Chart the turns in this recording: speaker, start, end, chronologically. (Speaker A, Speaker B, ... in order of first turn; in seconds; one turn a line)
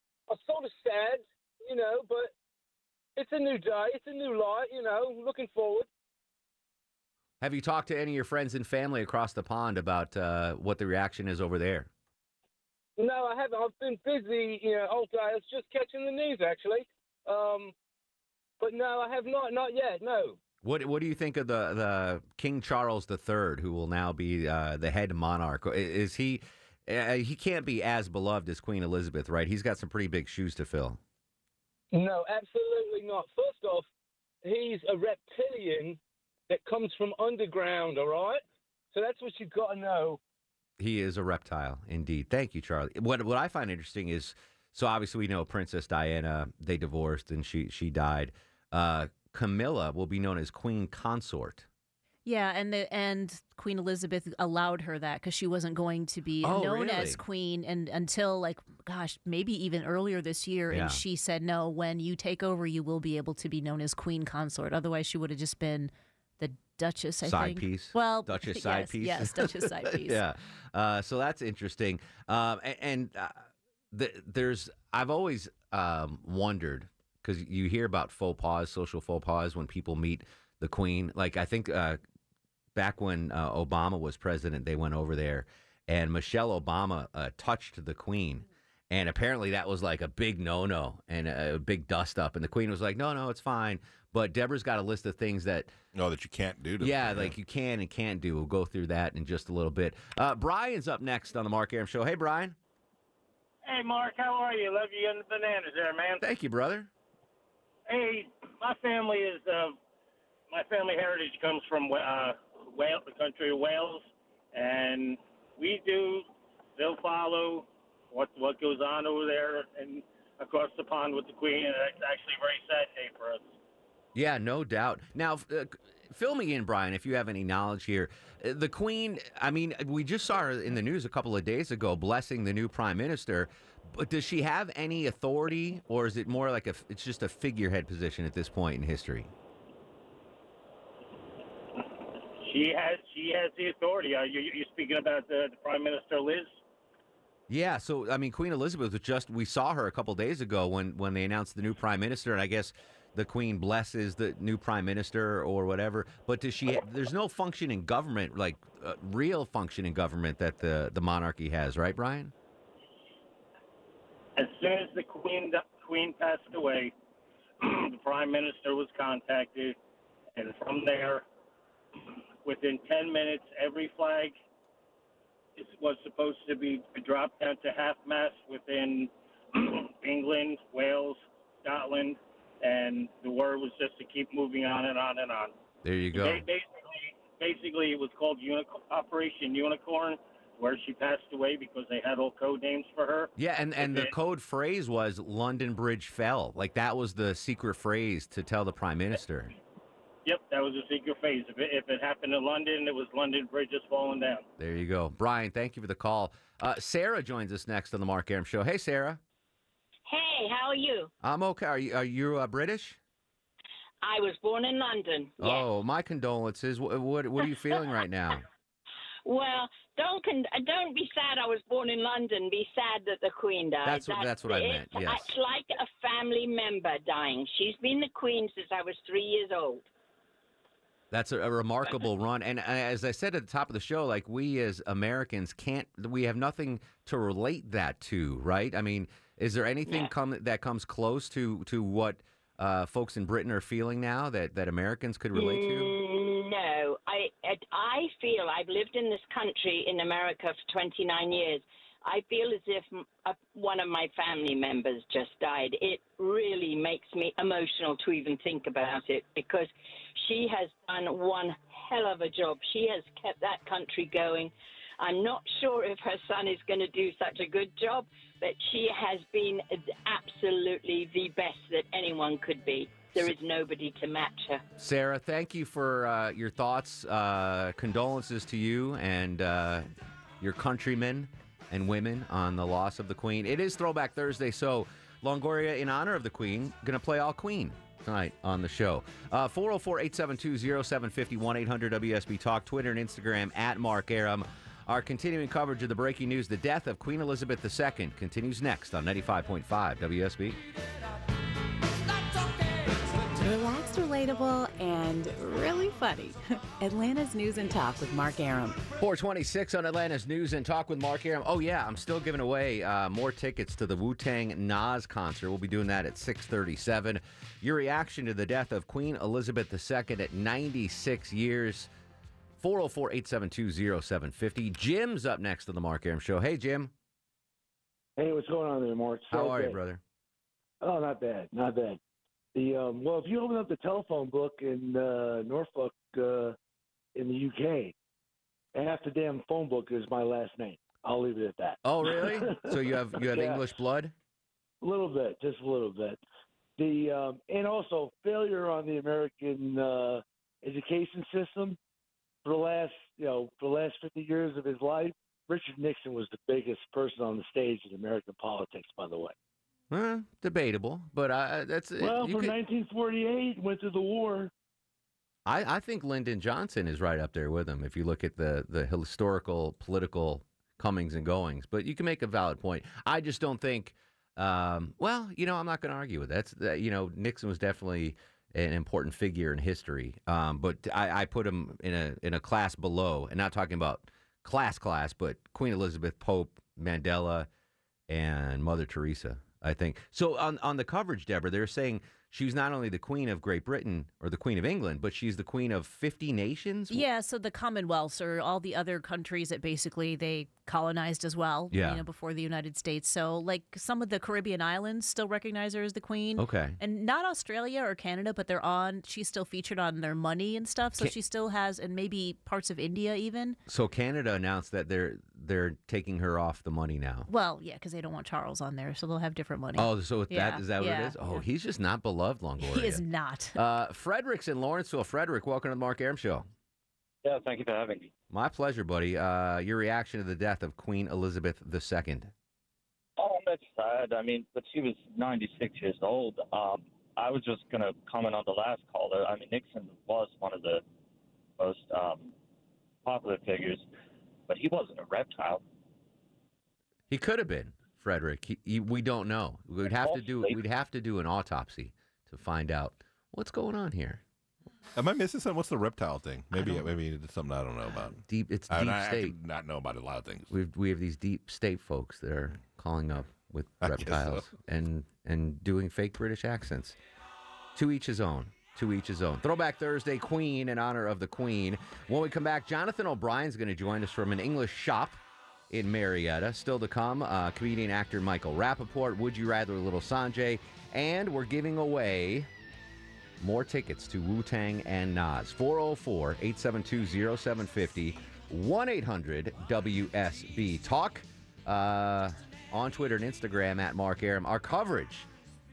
Speaker A: 0.3-2.3
Speaker A: 3.2-5.9
Speaker B: 7.4-11.9
Speaker A: 13.0-17.7
Speaker A: 18.6-20.4
Speaker B: 20.6-31.0
Speaker A: 31.9-33.9
Speaker A: 34.4-36.0
Speaker A: 36.5-38.4
Speaker A: 38.9-40.2
Speaker B: 40.8-51.7
Speaker C: 52.2-70.2
Speaker B: 56.4-57.2
Speaker B: 60.7-61.0
Speaker B: 67.2-82.0
Speaker B: 82.7-95.7
Speaker D: 95.9-97.3
Speaker B: 96.8-102.5
Speaker E: 103.6-106.2
Speaker B: 106.2-106.9
Speaker E: 107.9-109.8
Speaker E: 110.5-116.2
Speaker E: 116.8-123.5
Speaker B: 124.1-139.3
Speaker E: 142.4-146.5
Speaker B: 147.5-162.3
Speaker E: 164.3-166.9
Speaker E: 167.6-169.8
Speaker E: 170.3-171.2
Speaker E: 172.4-174.3
Speaker E: 175.6-185.5
Speaker B: 185.8-186.4
Speaker E: 186.1-194.1
Speaker B: 193.4-199.5
Speaker E: 200.2-204.4
Speaker B: 204.6-209.2
Speaker F: 210.1-211.1
Speaker B: 211.2-213.0
Speaker F: 214.0-215.6
Speaker B: 215.4-218.4
Speaker F: 219.2-229.9
Speaker B: 223.8-225.3
Speaker B: 231.1-245.9
Speaker F: 245.3-274.6
Speaker B: 274.8-279.9
Speaker B: 280.4-300.6
Speaker G: 303.3-308.8
Speaker B: 309.0-321.9
Speaker B: 322.6-326.9
Speaker H: 328.2-329.8
Speaker B: 329.3-330.0
Speaker H: 330.8-332.0
Speaker H: 332.5-336.6
Speaker H: 337.1-337.9
Speaker H: 338.7-343.7
Speaker B: 341.8-344.1
Speaker H: 344.8-346.2
Speaker H: 346.8-351.8
Speaker H: 352.4-359.3
Speaker B: 359.9-362.6
Speaker H: 362.0-364.5
Speaker B: 365.4-387.5
Speaker B: 388.1-397.0
Speaker C: 396.9-413.6
Speaker B: 401.7-402.0
Speaker B: 406.4-406.8
Speaker B: 413.7-417.3
Speaker C: 417.3-421.4
Speaker B: 419.8-423.0
Speaker C: 422.6-423.6
Speaker B: 423.5-426.5
Speaker I: 427.2-428.1
Speaker B: 428.3-432.3
Speaker I: 433.2-440.8
Speaker I: 441.6-442.3
Speaker I: 443.0-443.8
Speaker I: 444.5-445.6
Speaker B: 447.1-454.2
Speaker I: 450.0-450.6
Speaker D: 454.9-460.5
Speaker B: 458.2-459.4
Speaker B: 460.5-466.9
Speaker D: 463.8-464.5
Speaker B: 467.7-475.2
Speaker B: 475.7-482.5
Speaker B: 483.4-495.3